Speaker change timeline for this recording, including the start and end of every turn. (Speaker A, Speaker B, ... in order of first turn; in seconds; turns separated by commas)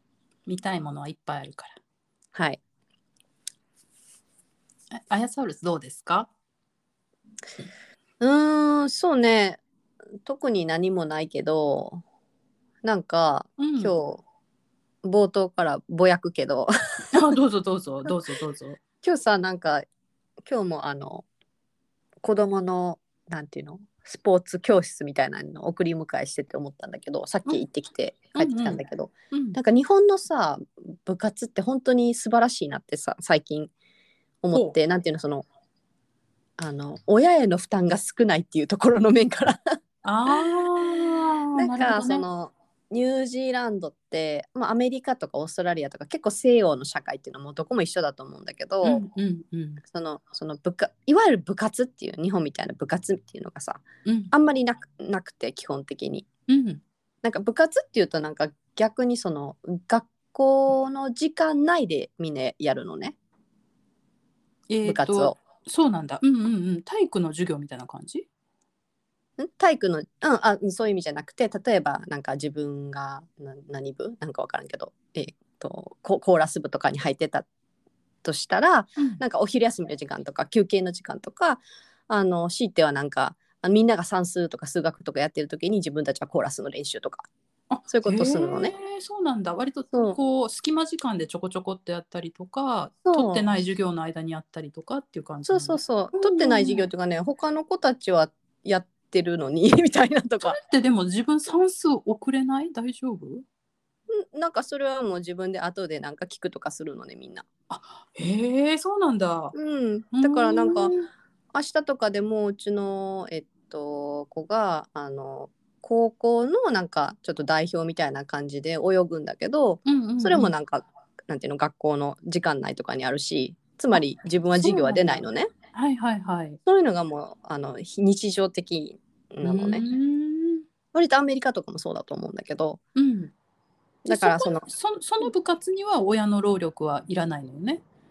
Speaker A: 0.5-1.8, Speaker B: 2.3-2.6, Speaker A: 4.9-6.3, Speaker B: 8.2-9.6, Speaker B: 10.2-12.0, Speaker B: 12.8-14.2, Speaker A: 13.6-13.9, Speaker B: 15.0-17.1, Speaker A: 17.1-18.8, Speaker B: 19.0-19.9, Speaker B: 20.4-21.3, Speaker B: 22.2-33.7, Speaker A: 28.4-28.8, Speaker A: 29.3-29.6, Speaker B: 34.4-35.5, Speaker B: 36.6-39.6, Speaker A: 40.0-42.2, Speaker B: 41.5-49.0, Speaker A: 48.8-49.8, Speaker B: 49.8-56.3, Speaker A: 54.1-54.3, Speaker A: 56.5-56.8, Speaker B: 57.2-63.1, Speaker A: 64.7-68.3, Speaker B: 64.8-65.4, Speaker B: 69.4-77.5, Speaker B: 78.2-87.3, Speaker A: 87.7-96.9, Speaker B: 87.9-88.7, Speaker B: 93.0-93.5, Speaker B: 95.5-100.6, Speaker A: 100.4-103.5, Speaker B: 104.1-107.5, Speaker A: 107.7-109.5, Speaker B: 109.5-110.9, Speaker A: 110.2-111.1, Speaker B: 111.5-125.5, Speaker A: 119.9-120.5, Speaker A: 124.6-125.2, Speaker A: 125.7-126.6, Speaker B: 126.7-129.8, Speaker A: 129.4-130.7, Speaker B: 130.9-132.8, Speaker A: 133.0-133.3, Speaker B: 134.1-134.7, Speaker A: 134.1-137.8